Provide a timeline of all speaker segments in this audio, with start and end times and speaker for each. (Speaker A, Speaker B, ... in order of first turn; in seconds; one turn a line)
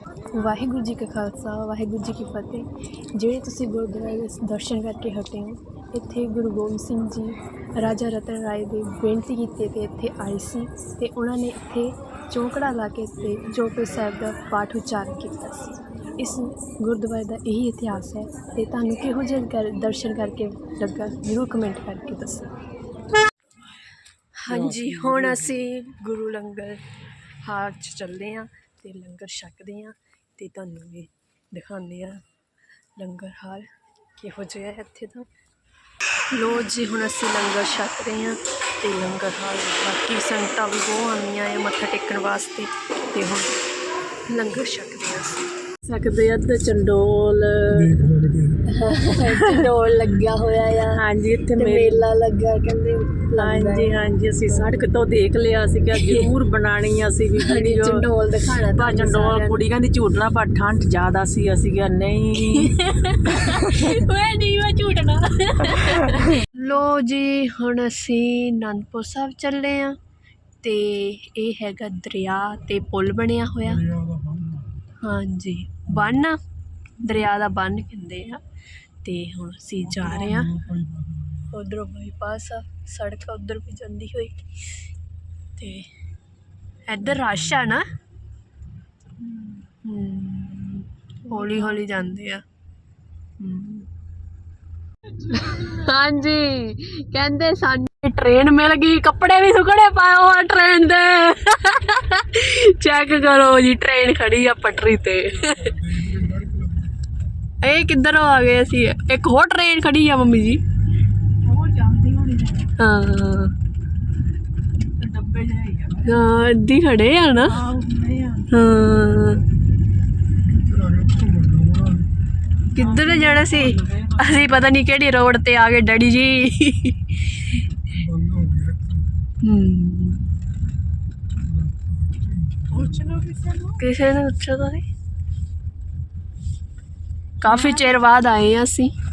Speaker A: 0.3-22.4
Speaker A: 24.4-26.8
Speaker B: 24.5-25.6
Speaker A: 27.4-32.2
Speaker A: 33.0-35.3
Speaker A: 36.3-43.6
Speaker A: 44.3-47.1
Speaker B: 47.7-48.6
Speaker A: 48.7-51.0
Speaker C: 49.3-49.7
Speaker C: 50.9-52.1
Speaker A: 51.5-54.7
Speaker C: 53.3-62.7
Speaker A: 55.9-56.4
Speaker A: 57.4-59.6
Speaker A: 62.4-70.0
Speaker C: 63.5-64.0
Speaker C: 66.0-66.3
Speaker A: 70.6-73.9
Speaker B: 73.6-74.8
Speaker A: 75.0-76.4
Speaker A: 77.0-78.4
Speaker A: 79.0-80.5
Speaker B: 79.8-81.5
Speaker A: 81.5-84.5
Speaker A: 85.6-85.9
Speaker A: 86.9-87.9
Speaker C: 89.2-89.7
Speaker A: 89.8-92.4
Speaker C: 91.3-92.2
Speaker A: 93.4-93.9
Speaker A: 95.3-105.8
Speaker B: 105.4-106.9
Speaker A: 107.6-110.6
Speaker C: 111.4-112.7
Speaker A: 112.8-113.5
Speaker C: 115.0-116.5
Speaker A: 116.0-117.6
Speaker C: 117.4-118.5
Speaker A: 118.5-119.4
Speaker B: 120.5-122.1
Speaker A: 122.7-127.6
Speaker C: 122.8-124.6
Speaker B: 127.9-129.2
Speaker A: 129.4-130.2
Speaker B: 131.4-133.2
Speaker C: 132.7-133.8
Speaker A: 133.8-134.8
Speaker A: 137.4-138.9
Speaker C: 137.4-138.1